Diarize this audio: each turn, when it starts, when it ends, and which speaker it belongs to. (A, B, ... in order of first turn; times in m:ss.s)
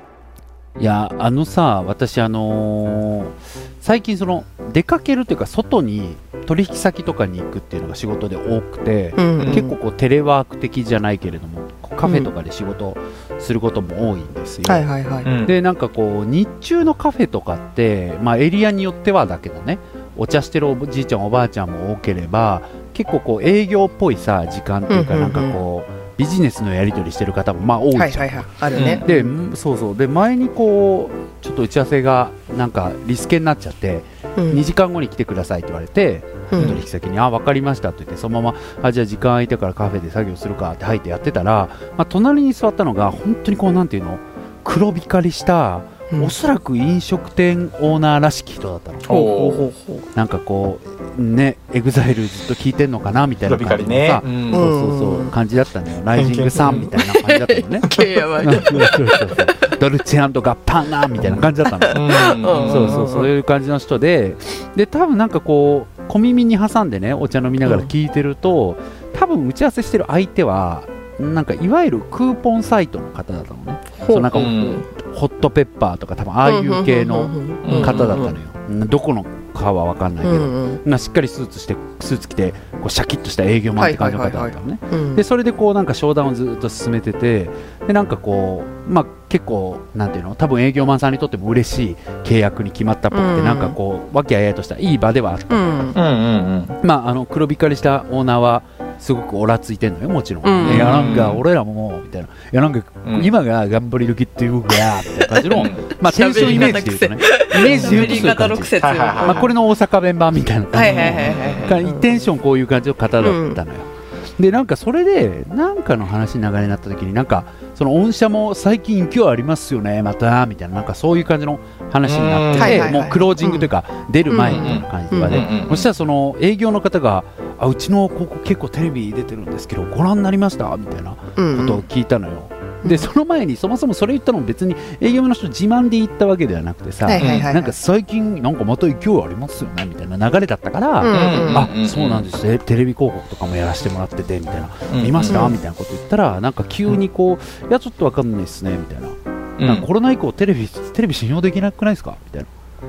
0:00.8-0:14.9 A
0:09.2-0:09.7 B
0:12.0-0:12.3 B
0:14.6-0:15.3 B
0:15.2-0:15.6 C
0:15.4-0:49.2 A
0:24.9-0:25.6 B
0:27.9-0:29.3 B
0:28.7-0:29.1 C
0:34.4-0:34.6 B
0:36.5-0:36.8 B
0:49.1-0:49.6 C
0:49.1-0:50.0 B
0:50.1-1:02.0 A
0:53.4-0:54.7 C
0:54.5-0:55.3 B
0:56.1-0:56.9 C
0:56.9-0:59.6 B
0:57.9-0:58.2 C
1:01.2-1:03.0 C
1:01.7-1:03.3 B
1:02.6-1:35.8 A
1:14.0-1:14.5 B
1:14.3-1:14.8 C
1:16.4-1:18.3 B
1:17.6-1:18.3 C
1:20.2-1:20.8 B
1:23.8-1:25.2 B
1:33.1-1:33.8 B
1:35.5-1:36.0 B
1:35.9-1:36.8 C
1:36.8-2:32.5 A
1:40.4-1:41.2 B
1:40.6-1:41.4 C
1:43.0-1:43.3 C
1:45.5-1:46.8 C
1:46.0-1:49.5 B
1:47.6-1:49.5 C
1:50.7-1:52.3 B
1:50.8-1:51.8 C
1:53.2-1:53.6 B
2:02.0-2:02.9 C
2:02.6-2:03.7 B
2:04.3-2:05.4 B
2:04.5-2:05.9 C
2:11.4-2:11.8 B
2:12.8-2:13.1 B
2:17.0-2:17.7 B
2:17.2-2:17.5 C
2:21.0-2:21.7 B
2:21.1-2:22.3 C
2:24.9-2:25.5 C
2:25.3-2:25.6 B
2:29.6-2:29.9 C